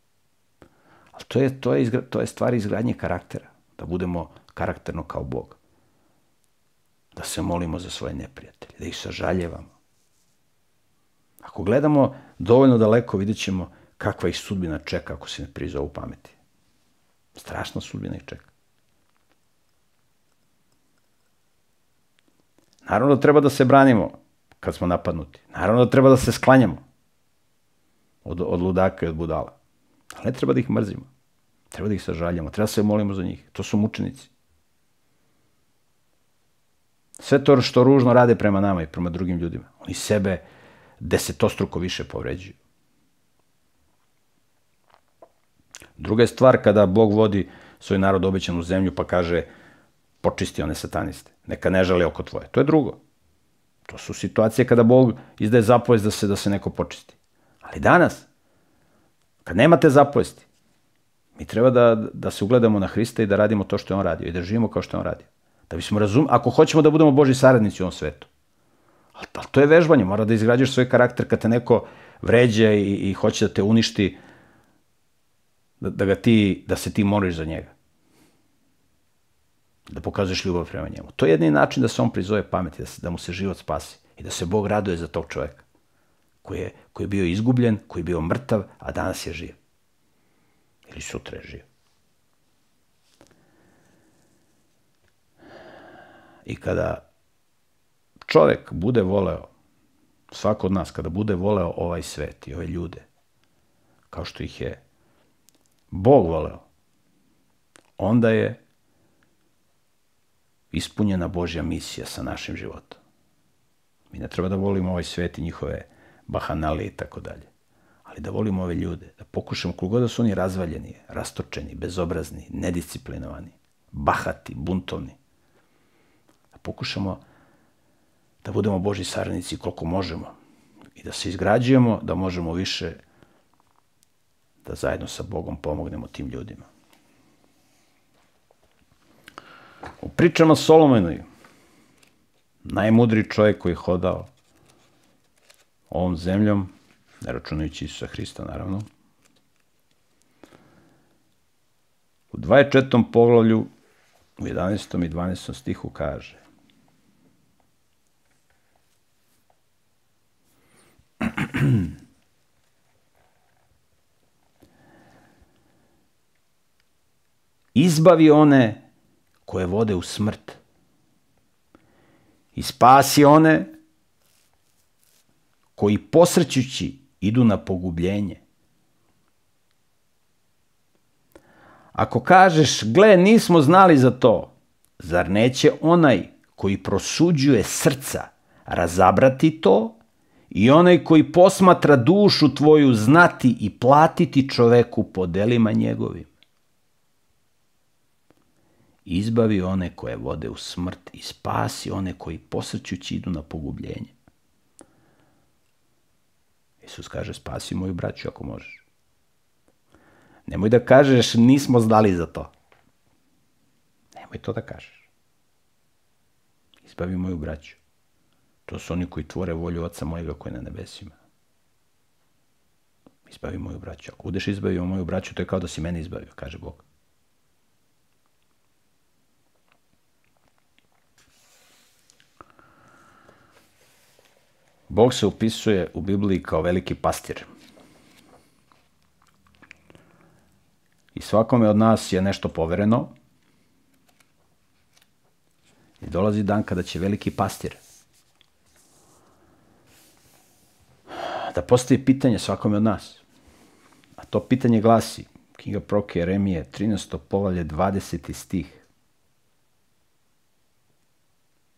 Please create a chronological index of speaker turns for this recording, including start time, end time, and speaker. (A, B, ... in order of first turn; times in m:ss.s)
0:01.2-0:05.6 A
0:07.2-0:09.7 A
0:11.4-0:16.4 A
0:17.4-0:18.5 A
0:22.8-0:26.8 A
0:28.2-0:29.5 A
0:30.1-0:31.1 A
0:31.7-0:34.3 A
0:37.2-0:40.4 A
0:41.0-0:42.6 A
0:46.0-0:49.5 A
0:50.2-0:53.0 A
0:53.9-0:58.3 A
0:59.4-1:00.5 A
1:01.4-1:08.3 A
1:09.2-1:14.2 A
1:15.8-1:17.7 A
1:19.9-1:25.6 A
1:26.4-1:29.6 A
1:30.9-1:31.7 A
1:36.5-1:37.0 A
1:38.2-1:39.5 A
1:40.3-1:43.0 A
1:44.1-1:44.8 A
1:45.9-1:46.6 A
1:48.0-1:48.6 A
1:50.7-1:53.0 A
1:54.1-1:57.5 A
1:58.1-2:05.2 A
2:06.6-2:07.2 A
2:08.4-2:10.3 A
2:11.0-2:13.0 A
2:14.6-2:16.7 A
2:20.0-2:21.2 A
2:22.6-2:24.3 A
2:25.9-2:28.9 A
2:32.3-2:33.7 A
2:34.4-2:36.4 A
2:47.8-2:48.8 A
2:49.5-2:50.6 A
2:52.6-2:53.7 A
2:55.8-2:58.4 A
3:02.0-3:10.0 A
3:10.5-3:16.3 A
3:19.1-3:24.1 A
3:26.8-3:28.8 A
3:30.5-3:32.5 A
3:34.2-3:35.1 A
3:36.8-3:37.8 A
3:38.7-3:41.2 A
3:43.3-3:46.8 A
3:54.9-3:57.5 A
4:01.2-4:03.1 A
4:06.0-4:07.8 A
4:11.5-4:13.2 A
4:14.2-4:18.8 A